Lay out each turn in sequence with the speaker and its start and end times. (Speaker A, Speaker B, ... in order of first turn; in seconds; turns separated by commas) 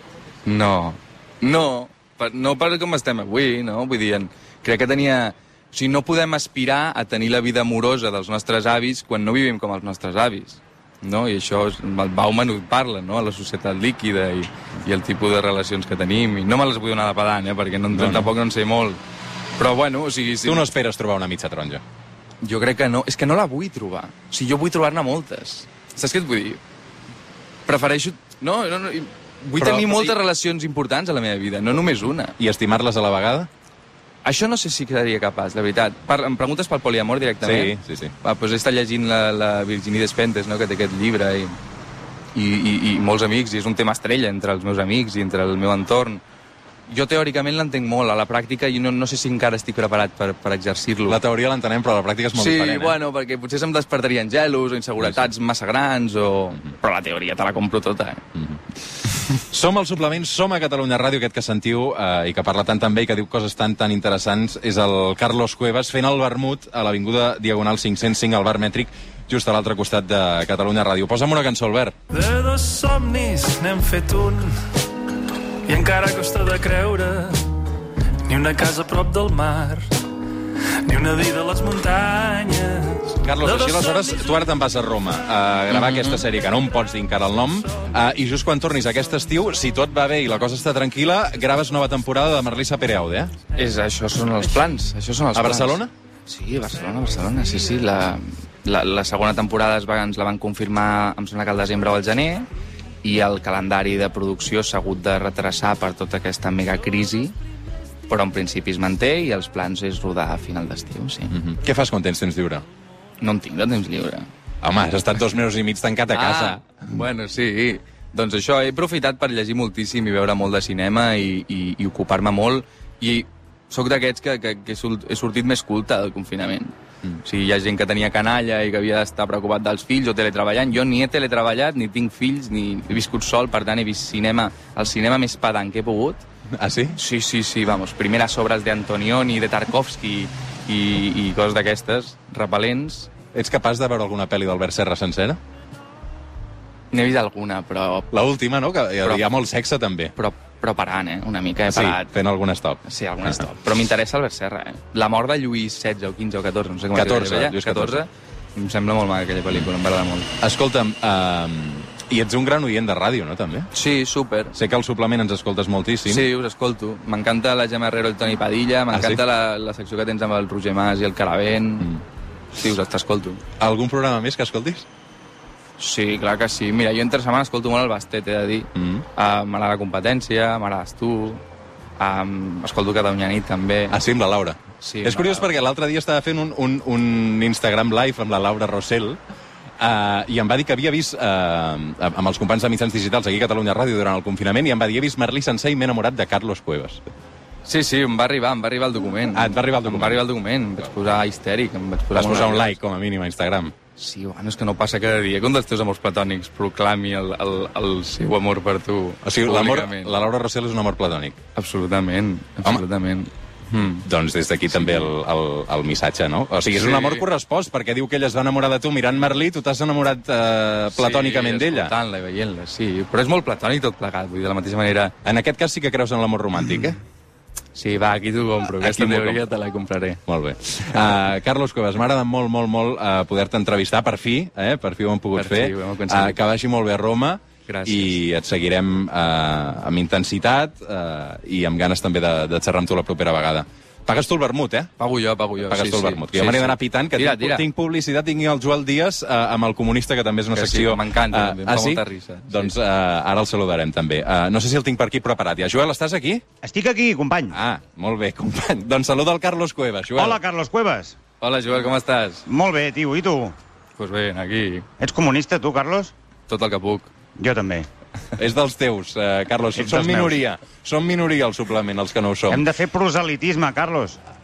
Speaker A: 0.5-19.0, Speaker B: 17.9-18.3, Speaker A: 19.6-20.7, Speaker B: 20.4-21.8, Speaker A: 22.4-26.6, Speaker A: 27.7-32.4, Speaker B: 29.6-30.1, Speaker B: 32.4-33.5, Speaker A: 34.2-41.6, Speaker B: 37.4-38.1, Speaker A: 42.4-46.2, Speaker A: 46.9-51.2, Speaker B: 51.1-53.0, Speaker A: 52.4-58.2, Speaker B: 55.0-55.3, Speaker B: 58.4-58.6, Speaker B: 59.4-72.0, Speaker C: 72.1-74.8, Speaker C: 75.7-77.6, Speaker C: 78.2-80.0, Speaker C: 80.8-84.4, Speaker B: 83.2-93.3, Speaker A: 85.7-86.2, Speaker A: 93.5-102.5, Speaker B: 95.3-95.9, Speaker A: 103.0-107.3, Speaker A: 108.1-111.4, Speaker B: 111.3-112.7, Speaker A: 113.2-114.3, Speaker B: 114.6-116.6, Speaker A: 116.1-136.2, Speaker B: 136.5-137.0, Speaker A: 136.9-143.1, Speaker B: 143.3-145.4, Speaker A: 146.9-148.1, Speaker B: 148.1-150.1, Speaker A: 150.2-152.1, Speaker B: 151.7-153.5, Speaker A: 152.8-160.3, Speaker B: 156.9-158.0, Speaker B: 160.4-163.7, Speaker A: 163.7-164.6, Speaker B: 164.5-166.3, Speaker A: 166.1-172.0, Speaker B: 168.9-169.2, Speaker A: 172.6-173.4, Speaker B: 173.6-174.9, Speaker A: 175.8-181.4, Speaker B: 178.8-179.0, Speaker A: 182.0-184.0, Speaker B: 183.9-189.2, Speaker A: 184.8-185.5, Speaker B: 189.8-197.0, Speaker A: 197.7-202.7, Speaker B: 199.3-200.2, Speaker B: 202.1-203.7, Speaker A: 204.0-210.2, Speaker B: 209.2-211.4, Speaker A: 211.6-214.1, Speaker B: 213.8-221.9, Speaker A: 214.7-215.1, Speaker A: 216.7-217.3, Speaker A: 220.9-225.1, Speaker B: 225.2-227.0, Speaker A: 227.8-230.2, Speaker B: 228.7-229.4, Speaker B: 230.3-244.9, Speaker A: 235.3-236.4, Speaker A: 237.7-238.2, Speaker A: 245.0-247.7, Speaker B: 245.7-256.4, Speaker A: 250.5-252.7, Speaker D: 256.6-257.6, Speaker B: 257.5-260.4, Speaker D: 260.2-261.2, Speaker A: 261.4-262.5, Speaker D: 262.5-263.6, Speaker A: 264.0-264.9, Speaker D: 265.0-266.1, Speaker A: 266.5-267.1, Speaker D: 267.4-267.9, Speaker B: 268.4-272.6, Speaker D: 269.8-270.4, Speaker D: 272.5-274.2